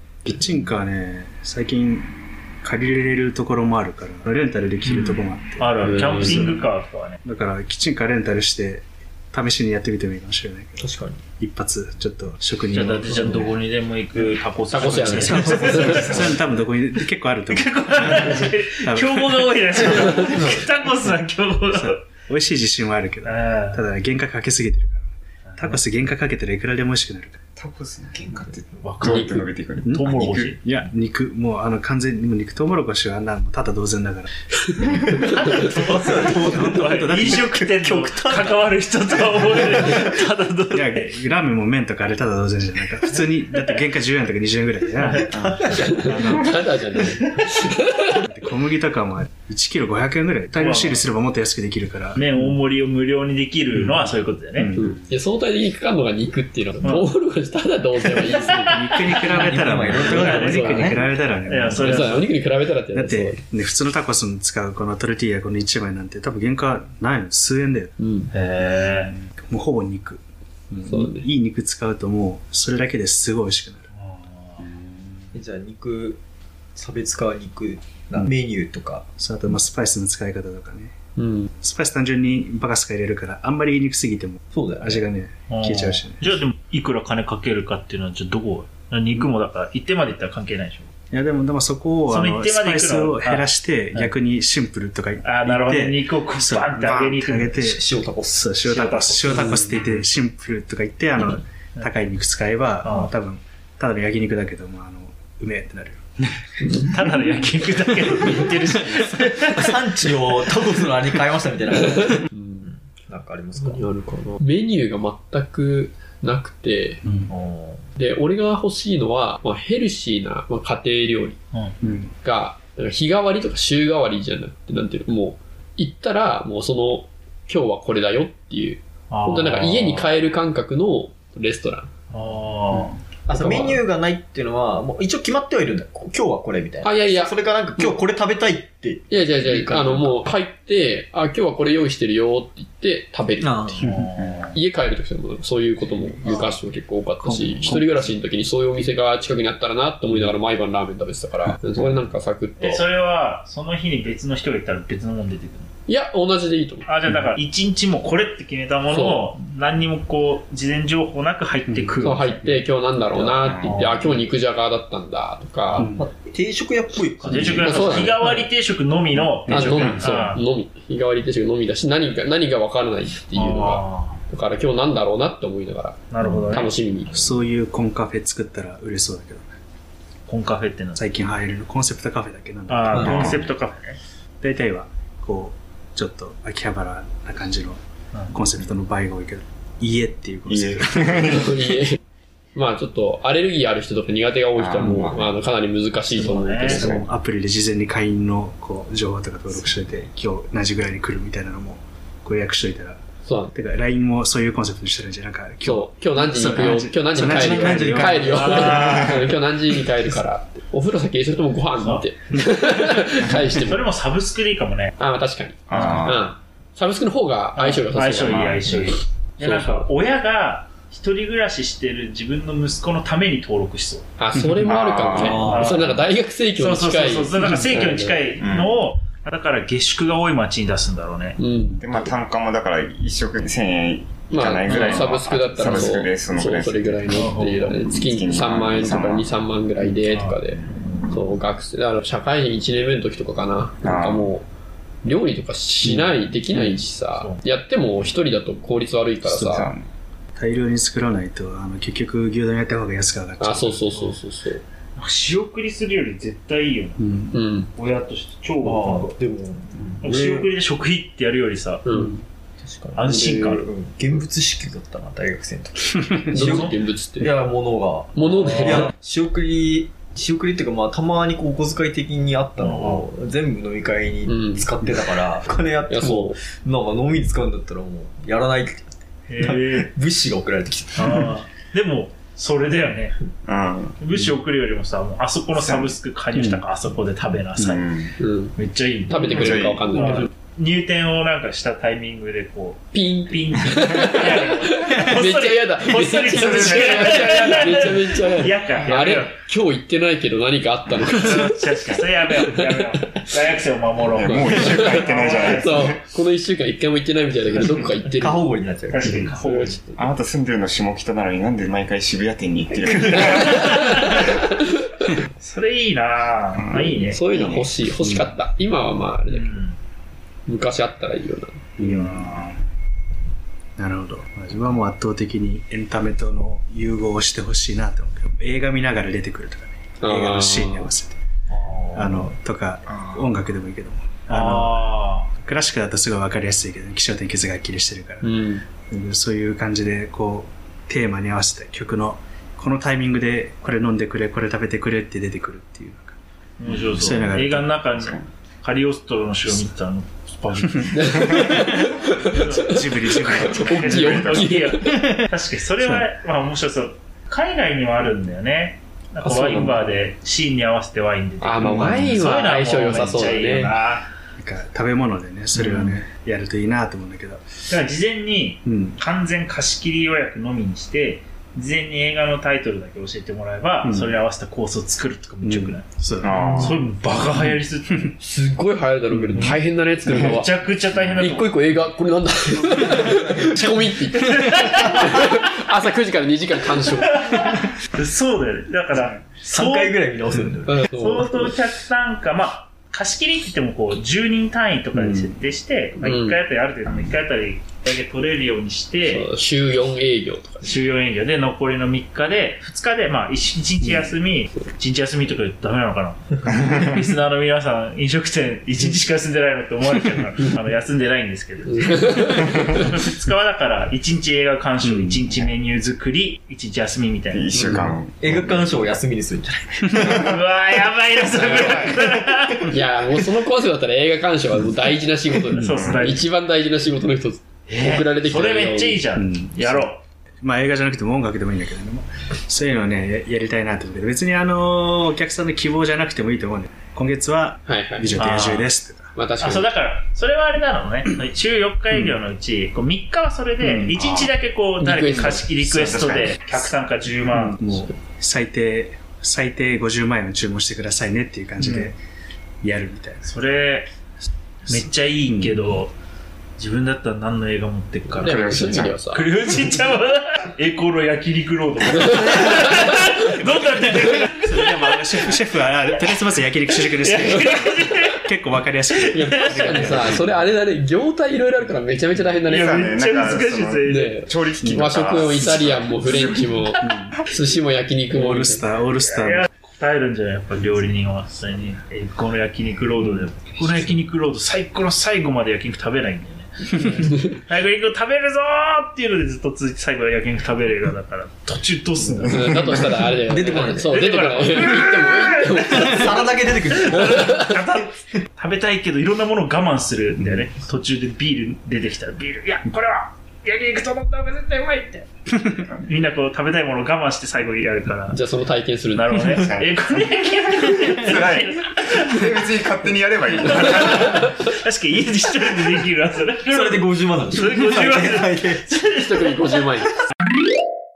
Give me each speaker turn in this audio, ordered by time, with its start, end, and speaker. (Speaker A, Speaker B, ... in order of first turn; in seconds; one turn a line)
Speaker A: 0.2-6.7
Speaker B: 4.8-7.2
Speaker C: 5.8-6.5
Speaker A: 7.2-10.9
Speaker D: 10.8-11.2
Speaker A: 11.4-13.5
Speaker B: 12.7-16.4
Speaker C: 14.7-16.1
Speaker A: 14.8-19.6
Speaker B: 17.5-22.1
Speaker D: 20.1-20.7
Speaker A: 21.7-27.4
Speaker B: 23.2-23.8
Speaker B: 25.5-25.8
Speaker E: 27.6-30.6
Speaker B: 28.8-30.6
Speaker C: 29.1-29.4
Speaker A: 29.9-34.3
Speaker E: 34.8-35.1
Speaker B: 35.3-41.1
Speaker D: 35.5-40.1
Speaker A: 36.3-37.6
Speaker A: 40.7-45.4
Speaker B: 43.5-43.8
Speaker B: 45.0-45.4
Speaker D: 45.0-46.1
Speaker E: 45.3-45.8
Speaker C: 46.0-48.2
Speaker A: 46.0-46.7
Speaker A: 48.2-52.5
Speaker B: 50.5-51.1
Speaker B: 52.1-54.7
Speaker A: 53.8-54.9
Speaker C: 54.8-61.1
Speaker B: 56.8-57.1
Speaker B: 58.0-60.9
Speaker A: 58.7-62.2
Speaker D: 59.2-61.0
Speaker B: 61.5-62.3
Speaker C: 61.7-63.4
Speaker A: 62.9-67.9
Speaker C: 68.0-68.3
Speaker B: 68.3-69.2
Speaker A: 69.4-73.9
Speaker C: 70.9-71.3
Speaker B: 73.9-74.7
Speaker E: 74.6-74.9
Speaker D: 75.3-76.2
Speaker D: 76.8-79.1
Speaker A: 79.2-81.0
Speaker C: 81.2-81.5
Speaker A: 81.6-86.3
Speaker D: 84.5-85.1
Speaker B: 85.5-90.9
Speaker A: 91.1-106.3
Speaker B: 92.1-94.1
Speaker B: 95.2-97.6
Speaker D: 97.6-98.5
Speaker B: 98.6-100.0
Speaker B: 102.8-103.1
Speaker B: 106.7-110.1
Speaker A: 108.0-108.8
Speaker D: 109.5-113.9
Speaker C: 112.1-112.7
Speaker C: 113.6-117.0
Speaker A: 117.0-117.3
Speaker B: 117.3-117.8
Speaker C: 118.0-121.4
Speaker A: 121.8-122.1
Speaker C: 122.2-131.9
Speaker B: 129.1-130.1
Speaker B: 132.1-133.0
Speaker D: 133.3-140.2
Speaker C: 133.3-133.8
Speaker C: 136.8-138.0
Speaker C: 139.1-143.8
Speaker D: 143.4-143.8
Speaker B: 143.7-144.6
Speaker E: 144.2-144.5
Speaker C: 144.5-152.8
Speaker B: 146.2-146.6
Speaker A: 147.2-148.1
Speaker A: 151.4-151.9
Speaker B: 152.6-155.7
Speaker C: 155.9-156.9
Speaker B: 156.8-162.4
Speaker C: 158.9-159.3
Speaker A: 161.7-162.6
Speaker C: 162.0-165.9
Speaker E: 163.3-163.9
Speaker B: 163.5-164.3
Speaker A: 165.7-166.1
Speaker D: 166.0-168.3
Speaker B: 167.2-170.4
Speaker C: 167.6-168.4
Speaker A: 169.2-170.0
Speaker C: 169.5-177.2
Speaker B: 173.3-174.2
Speaker B: 176.1-177.3
Speaker A: 176.2-179.5
Speaker B: 180.3-181.0
Speaker A: 180.9-183.5
Speaker B: 182.7-184.0
Speaker D: 182.9-183.2
Speaker E: 183.0-183.4
Speaker A: 184.4-191.5
Speaker E: 190.5-191.6
Speaker C: 191.2-192.0
Speaker C: 192.6-197.0
Speaker E: 194.6-195.3
Speaker B: 196.1-196.9
Speaker A: 196.7-209.1
Speaker E: 196.7-197.1
Speaker C: 203.2-203.5
Speaker C: 205.6-213.8
Speaker B: 207.4-209.2
Speaker B: 211.8-212.1
Speaker A: 212.6-213.1
Speaker B: 213.5-214.9
Speaker C: 215.0-219.9
Speaker E: 215.7-216.3
Speaker B: 215.7-216.1
Speaker B: 217.6-224.1
Speaker E: 218.3-218.7
Speaker C: 224.2-228.3
Speaker A: 224.3-224.7
Speaker E: 224.6-225.8
Speaker B: 225.1-226.0
Speaker D: 225.2-225.7
Speaker B: 226.6-231.4
Speaker E: 228.4-228.9
Speaker C: 231.4-232.1
Speaker E: 231.7-239.3
Speaker C: 234.3-244.5
Speaker B: 234.7-235.1
Speaker B: 235.6-235.9
Speaker B: 237.1-237.7
Speaker B: 240.0-241.2
Speaker E: 243.8-244.3
Speaker C: 245.0-249.7
Speaker B: 246.5-247.4
Speaker E: 249.2-249.9
Speaker A: 250.4-254.0
Speaker C: 253.4-254.6
Speaker B: 255.0-259.1
Speaker A: 257.0-257.4
Speaker C: 257.3-257.7
Speaker D: 258.6-260.5
Speaker B: 260.0-261.9
Speaker C: 261.9-262.2
Speaker D: 262.6-281.4
Speaker B: 262.9-263.7
Speaker C: 266.3-267.3
Speaker B: 266.4-266.8
Speaker C: 268.1-268.9
Speaker B: 272.6-273.0
Speaker C: 274.3-274.7
Speaker C: 275.9-276.4
Speaker B: 279.3-279.9
Speaker B: 280.9-283.2
Speaker E: 283.5-284.0
Speaker B: 284.0-299.4
Speaker E: 285.5-286.0
Speaker A: 286.4-286.7
Speaker E: 287.6-288.1
Speaker C: 288.2-288.6
Speaker C: 289.1-290.3
Speaker E: 289.1-290.2
Speaker C: 292.9-301.6
Speaker E: 296.4-297.3
Speaker B: 301.1-305.9
Speaker C: 302.5-302.8
Speaker E: 304.1-306.0
Speaker C: 304.2-308.4
Speaker D: 308.1-309.3
Speaker B: 308.9-309.9
Speaker C: 309.4-309.8
Speaker E: 310.0-313.9
Speaker C: 313.2-314.4
Speaker B: 315.4-317.2
Speaker E: 316.5-317.7
Speaker C: 317.1-319.6
Speaker A: 318.0-318.3
Speaker B: 319.3-319.8
Speaker C: 320.5-321.6
Speaker B: 321.8-322.6
Speaker A: 321.8-322.6
Speaker A: 323.8-331.2
Speaker C: 330.0-330.9
Speaker B: 331.5-332.3
Speaker A: 331.9-346.2
Speaker B: 334.3-335.3
Speaker C: 338.2-338.6
Speaker B: 346.6-351.4
Speaker E: 346.7-347.2
Speaker A: 346.9-347.8
Speaker E: 347.9-348.3
Speaker A: 350.6-351.0
Speaker C: 350.9-355.1
Speaker E: 351.1-351.5
Speaker A: 351.6-355.2
Speaker B: 352.2-364.1
Speaker A: 355.8-356.1
Speaker C: 359.2-359.8
Speaker C: 361.4-363.7
Speaker A: 361.6-362.2
Speaker A: 362.9-363.3
Speaker A: 364.4-367.7
Speaker B: 365.6-366.0
Speaker B: 367.7-378.2
Speaker A: 368.6-369.0
Speaker A: 373.8-374.2
Speaker A: 375.4-376.7
Speaker E: 376.2-376.8
Speaker A: 377.3-378.1
Speaker C: 378.2-380.6
Speaker A: 379.1-379.6
Speaker B: 379.4-381.6
Speaker C: 381.2-387.6
Speaker D: 382.9-383.7
Speaker B: 384.1-385.4
Speaker B: 387.2-390.0
Speaker D: 389.3-390.9
Speaker C: 390.7-391.5
Speaker B: 390.8-399.3
Speaker A: 394.9-395.4
Speaker C: 396.0-396.4
Speaker C: 399.0-400.9
Speaker B: 400.6-417.6
Speaker C: 411.7-412.8
Speaker A: 414.8-415.3
Speaker E: 417.3-418.9
Speaker C: 417.6-418.0
Speaker D: 417.7-420.3
Speaker B: 420.1-422.7
Speaker D: 421.7-422.0
Speaker C: 422.7-429.0
Speaker B: 425.6-426.3
Speaker E: 425.6-426.2
Speaker B: 427.7-430.0
Speaker A: 429.1-429.9
Speaker A: 430.4-439.1
Speaker C: 437.7-438.2
Speaker B: 438.1-438.7
Speaker C: 439.1-439.7
Speaker B: 439.4-447.6
Speaker A: 441.9-442.2
Speaker A: 443.6-444.0
Speaker E: 443.9-444.3
Speaker C: 444.8-445.5
Speaker A: 445.1-445.4
Speaker E: 445.5-446.6
Speaker A: 447.3-452.0
Speaker B: 451.6-451.9
Speaker A: 452.6-453.3
Speaker B: 453.2-453.9
Speaker A: 454.7-455.7
Speaker B: 454.7-455.9
Speaker B: 456.6-465.3
Speaker C: 458.1-459.3
Speaker E: 458.2-459.1
Speaker C: 462.2-462.5
Speaker A: 464.4-470.4
Speaker B: 466.9-468.2
Speaker B: 469.1-470.2
Speaker C: 469.1-472.9
Speaker B: 472.4-474.2
Speaker E: 472.5-476.8
Speaker C: 473.9-478.6
Speaker A: 476.8-477.2
Speaker A: 478.1-479.5
Speaker B: 479.1-492.9
Speaker A: 483.1-483.9
Speaker A: 486.7-487.1
Speaker C: 492.3-496.3
Speaker D: 493.2-494.0
Speaker B: 493.5-495.8
Speaker D: 495.4-497.5
Speaker B: 496.7-505.1
Speaker C: 497.2-497.4
Speaker A: 500.2-500.4
Speaker B: 505.9-508.2
Speaker C: 508.1-509.4
Speaker B: 508.9-512.5
Speaker E: 509.3-509.9
Speaker E: 510.9-514.3
Speaker B: 513.4-519.6
Speaker D: 516.5-518.6
Speaker C: 518.9-519.9